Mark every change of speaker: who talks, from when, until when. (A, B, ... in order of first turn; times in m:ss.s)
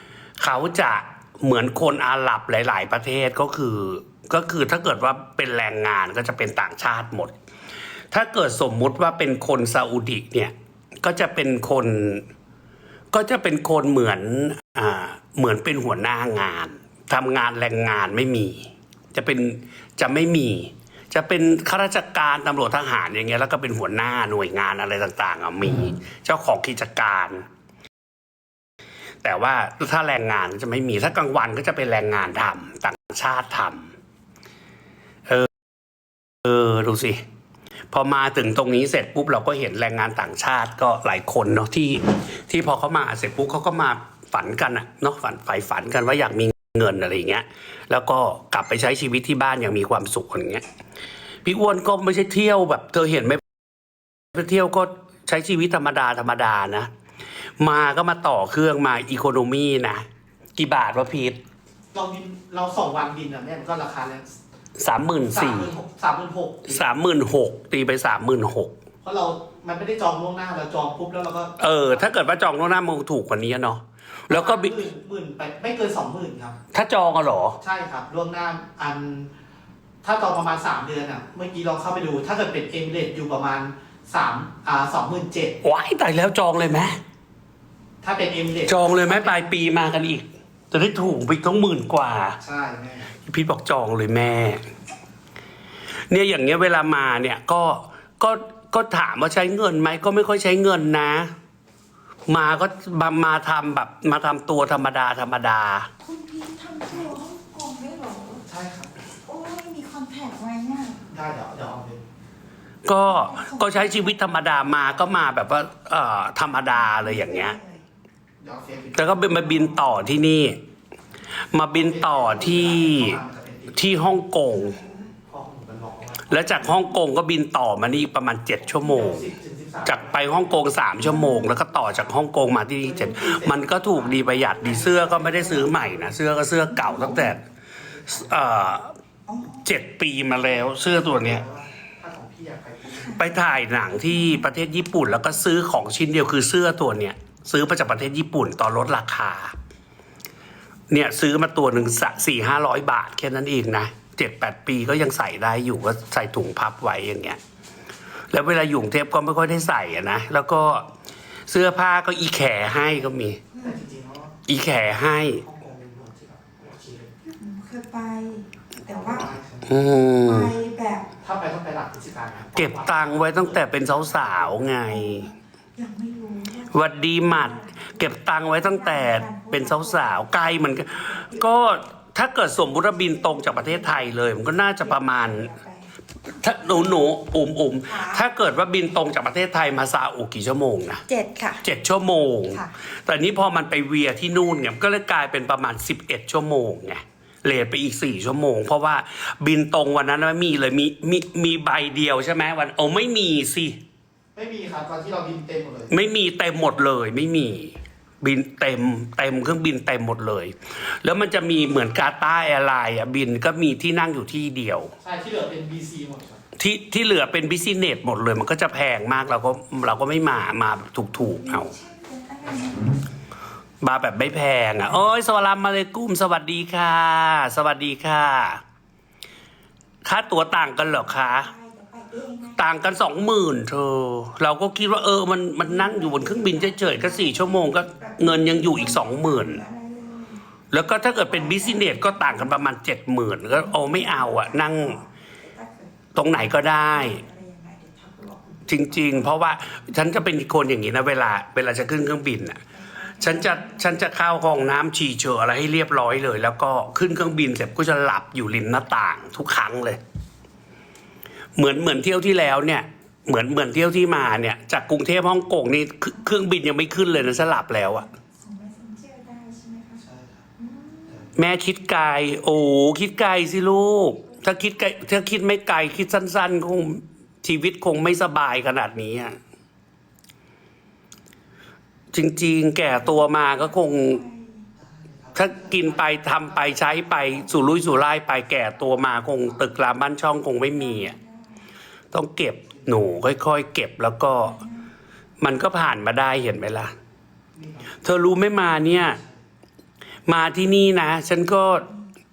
0:00.4-0:07.3 A
0:08.1-0:12.2 A
0:13.1-0:27.4 A
0:29.2-0:33.9 A
0:36.4-0:37.2 A
0:37.9-0:50.6 A
0:51.4-0:53.4 A
0:54.3-0:56.9 A
0:57.6-1:00.0 A
1:00.6-1:01.4 A
1:01.9-1:04.4 B
1:04.8-1:05.7 A
1:05.3-1:06.8 B
1:06.6-1:08.7 A
1:09.0-1:12.1 B
1:11.6-1:14.8 A
1:14.3-1:16.6 B
1:16.7-1:17.6 A
1:17.6-1:19.3 B
1:20.0-1:25.6 B
1:25.6-1:27.0 A
1:28.0-1:29.5 B
1:28.7-1:32.4 A
1:32.4-1:33.1 B
1:33.2-1:34.6 A
1:36.1-1:41.3 A
1:42.3-1:45.9 A
1:46.0-1:48.4 C
1:48.4-1:48.9 B
1:49.2-1:51.0 C
1:51.0-1:52.1 B
1:52.8-1:57.6 A
1:53.0-1:54.4 C
1:56.6-1:57.8 C
1:58.4-1:59.9 B
1:58.9-2:00.6 A
2:01.5-2:03.2 A
2:01.7-2:04.1 B
2:03.7-2:04.8 A
2:04.5-2:05.1 C
2:05.2-2:06.8 B
2:06.3-2:09.3 A
2:08.6-2:10.4 B
2:09.8-2:17.4 A
2:11.0-2:11.6 C
2:11.7-2:12.1 B
2:12.8-2:16.2 B
2:16.8-2:17.3 C
2:17.1-2:18.7 B
2:18.1-2:19.0 A
2:19.3-2:19.7 C
2:19.6-2:21.4 A
2:20.4-2:23.3 B
2:22.9-2:23.4 C
2:23.2-2:29.5 A
2:24.0-2:24.5 C
2:30.9-2:37.4 A
2:31.8-2:32.1 C
2:38.3-2:40.9 A
2:41.5-2:43.4 A
2:43.5-2:43.8 C
2:43.6-2:44.4 B
2:44.5-2:45.4 A
2:45.3-2:47.1 B
2:47.2-2:49.3 C
2:48.9-2:49.8 B
2:49.6-2:50.5 A
2:50.2-2:51.1 C
2:51.2-2:54.8 B
2:52.6-2:55.3 A
2:54.9-3:01.8 C
2:56.7-3:05.5 A
3:02.8-3:05.9 C
3:06.3-3:11.0 A
3:07.8-3:08.2 C
3:11.1-3:11.6 C
3:11.6-3:23.8 A
3:24.3-3:25.9 B
3:25.9-3:34.9 A
3:35.0-3:36.4 B
3:36.6-3:41.7 A
3:41.2-3:43.1 C
3:43.8-3:48.6 A
3:50.0-3:51.5 A
3:50.8-3:52.8 C
3:52.6-3:59.6 A
3:55.6-4:00.4 C
4:00.7-4:05.0 A
4:01.3-4:02.7 C
4:03.5-4:09.5 C
4:06.1-4:07.2 A
4:08.7-4:12.6 A
4:12.7-4:14.1 C
4:13.2-4:20.0 A
4:21.6-4:28.1 A
4:27.0-4:30.0 C
4:30.0-4:30.5 B
4:30.6-4:31.3 C
4:31.1-4:31.3 B
4:31.4-4:39.4 A
4:34.2-4:35.0 C
4:42.1-4:44.2 A
4:42.8-4:44.7 C
4:44.8-4:49.7 B
4:45.3-4:51.1 A
4:50.8-4:51.7 C
4:52.1-4:54.6 A
4:52.7-4:53.1 B
4:54.3-4:54.9 C
4:55.4-4:56.9 A
4:57.5-4:58.0 B
4:58.0-4:59.2 A
4:58.9-4:59.4 B
5:00.2-5:01.9 A